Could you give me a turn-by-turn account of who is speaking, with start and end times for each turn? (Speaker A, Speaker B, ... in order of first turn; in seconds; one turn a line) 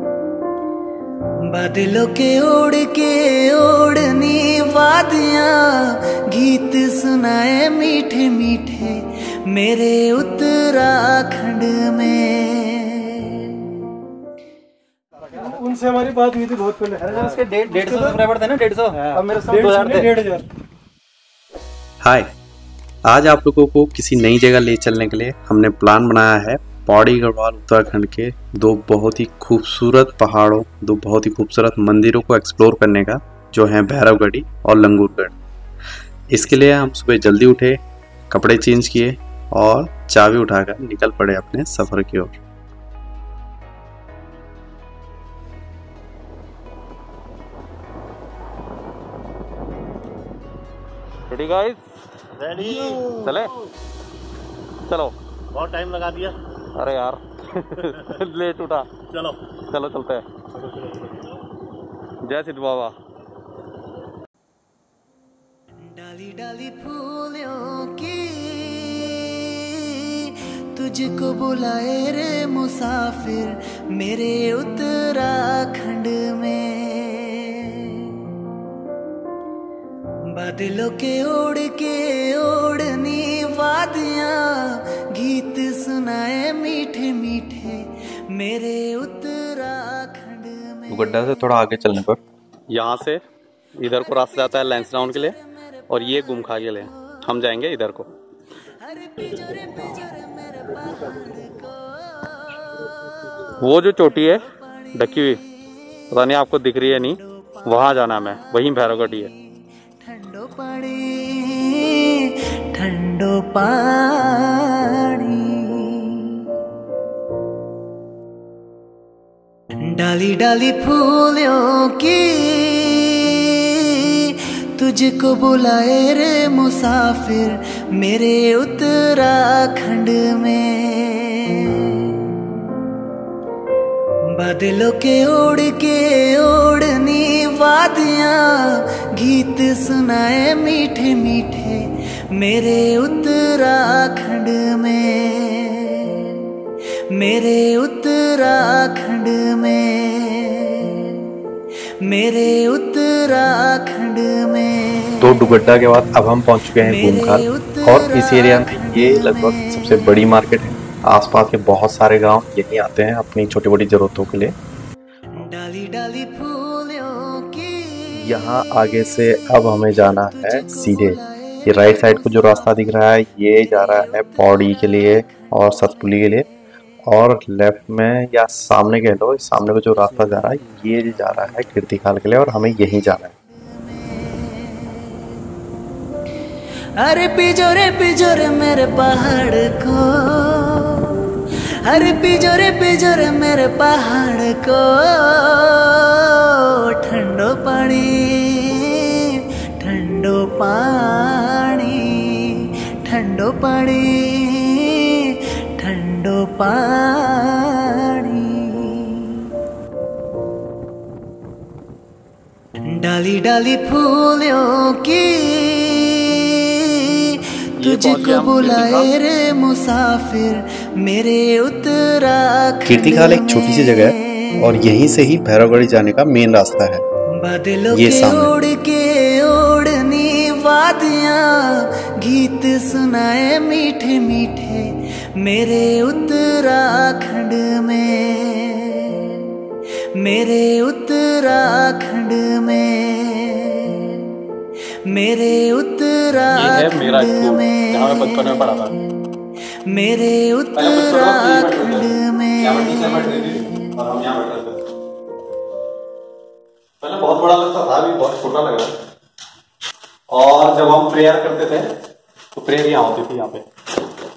Speaker A: 1.4-13.5
Speaker B: 15.4-18.2
Speaker C: 17.1-20.2
Speaker B: 19.0-20.5
Speaker D: 22.0-22.3
Speaker D: 23.1-35.3
Speaker D: 36.3-42.3
Speaker C: 51.3-51.8
Speaker E: 52.4-53.2
Speaker C: 52.6-53.5
Speaker C: 54.9-55.1
Speaker E: 55.5-56.4
Speaker C: 56.7-58.9
Speaker E: 59.1-59.4
Speaker C: 59.6-60.2
Speaker E: 60.8-61.1
Speaker C: 62.2-63.0
Speaker A: 65.8-78.3
Speaker A: 80.2-91.2
Speaker D: 90.9-92.2
Speaker C: 92.7-93.2
Speaker C: 93.8-95.4
Speaker C: 95.9-98.1
Speaker A: 98.7-102.4
Speaker C: 103.6-105.4
Speaker C: 106.1-109.3
Speaker A: 107.4-108.0
Speaker A: 110.0-116.5
Speaker A: 119.8-132.5
Speaker A: 134.3-146.6
Speaker A: 147.1-151.3
Speaker A: 152.0-155.2
Speaker D: 155.2-164.5
Speaker A: 156.9-159.5
Speaker A: 165.3-168.2
Speaker D: 168.2-176.5
Speaker A: 170.4-172.8
Speaker A: 173.8-175.2
Speaker D: 177.1-183.3
Speaker A: 183.9-185.3
Speaker A: 187.0-191.3
Speaker A: 191.8-209.5
Speaker A: 212.8-224.0
Speaker C: 217.8-219.1
Speaker D: 222.9-227.0
Speaker A: 227.4-239.6
Speaker D: 227.9-228.5
Speaker A: 240.1-244.4
Speaker A: 245.0-248.7
Speaker C: 246.5-248.9
Speaker A: 249.8-253.4
Speaker C: 250.8-254.8
Speaker C: 257.0-258.9
Speaker C: 260.3-261.9
Speaker C: 262.5-263.6